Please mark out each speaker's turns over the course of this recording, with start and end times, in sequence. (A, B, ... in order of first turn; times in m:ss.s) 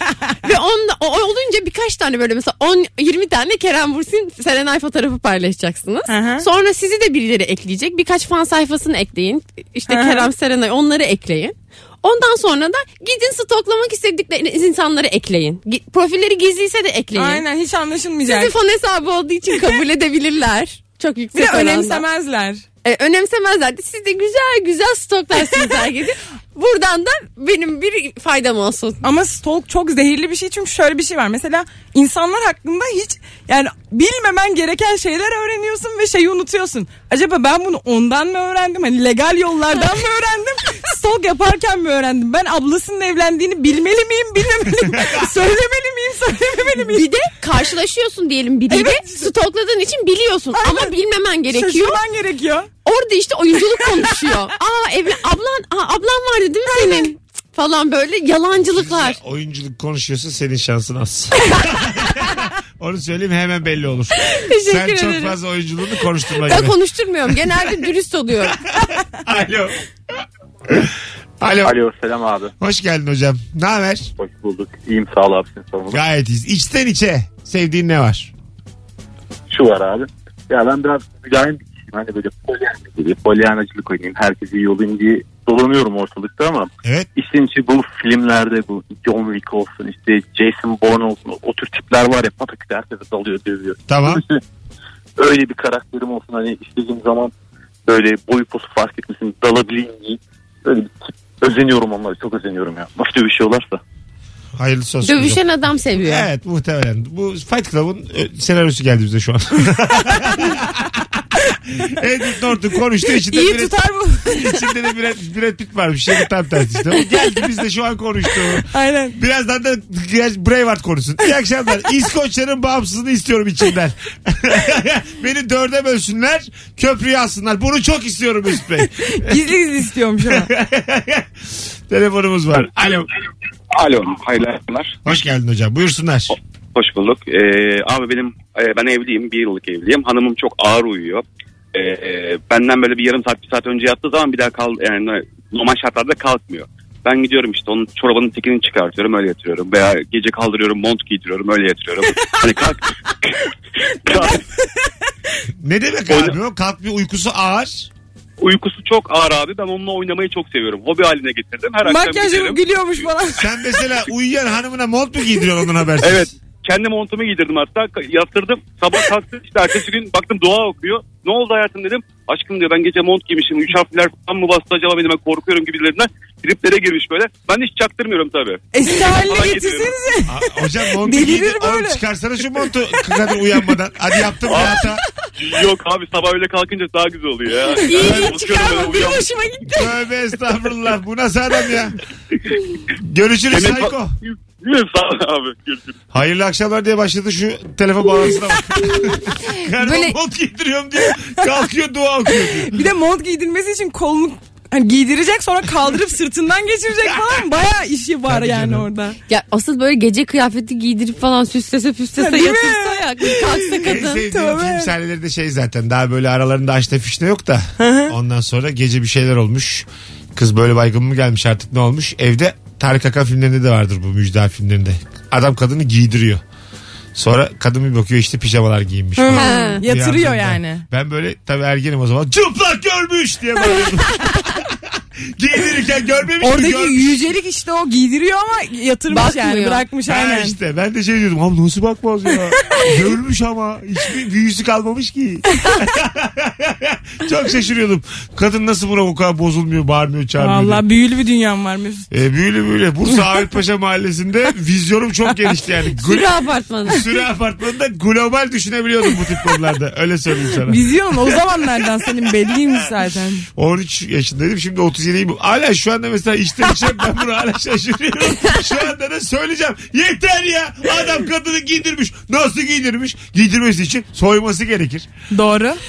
0:00.4-0:17.4 A
0:06.1-0:06.4 B
0:09.9-0:10.3 B
0:17.1-0:18.5 B
0:18.2-0:22.0 A
0:21.3-0:22.6 B
0:22.8-0:29.0 A
0:29.0-0:47.1 B
0:44.9-0:45.2 C
0:46.8-0:52.0 A
0:48.7-0:49.3 B
0:50.5-0:50.9 B
0:51.5-0:52.7 B
0:52.8-0:59.2 A
0:56.7-0:57.1 B
0:58.6-1:06.8 C
1:04.2-1:05.3 A
1:06.3-1:08.6 A
1:07.3-1:07.7 C
1:08.9-1:09.8 C
1:10.7-1:11.8 C
1:11.6-1:12.5 D
1:12.6-1:14.1 C
1:14.2-1:16.0 D
1:15.9-1:18.3 C
1:19.5-1:34.4 D
1:26.8-1:27.1 C
1:33.9-1:34.2 C
1:35.2-1:37.3 D
1:37.9-1:43.8 D
1:44.6-1:45.4 C
1:45.0-1:46.3 A
1:46.0-1:51.2 C
1:51.7-1:53.7 C
1:53.3-1:54.6 B
1:54.2-2:09.4 C
1:58.6-1:59.2 B
2:09.0-2:10.5 B
2:10.2-2:11.3 C
2:11.9-2:13.1 C
2:13.8-2:14.9 E
2:15.0-2:16.3 C
2:16.8-2:33.3 E
2:34.0-2:34.4 E
2:35.6-2:37.9 C
2:36.1-2:36.3 E
2:38.4-2:42.6 E
2:41.8-2:43.4 B
2:43.4-2:46.3 C
2:46.0-2:59.9 E
2:58.7-3:02.0 B
3:00.3-3:05.0 C
3:04.5-3:04.8 E
3:05.4-3:09.2 E
3:07.7-3:09.9 A
3:08.0-3:08.3 C
3:09.8-3:12.0 C
3:13.0-3:14.1 C
3:13.5-3:15.9 E
3:16.1-3:22.8 C
3:19.0-3:20.1 A
3:22.6-3:29.2 B
3:28.3-3:28.9 C
3:29.3-3:34.2 A
3:32.2-3:34.9 B
3:33.8-3:46.4 C
3:37.8-3:38.1 B
3:47.1-3:54.8 C
3:49.2-3:50.8 B
3:49.3-3:49.8 A
3:55.4-3:57.3 C
3:56.4-4:00.6 B
3:59.1-3:59.8 A
4:00.1-4:10.8 C
4:10.4-4:12.1 B
4:12.1-4:16.3 C
4:16.0-4:17.0 A
4:16.9-4:21.4 C
4:20.6-4:23.4 B
4:23.6-4:35.1 C
4:35.3-4:35.8 B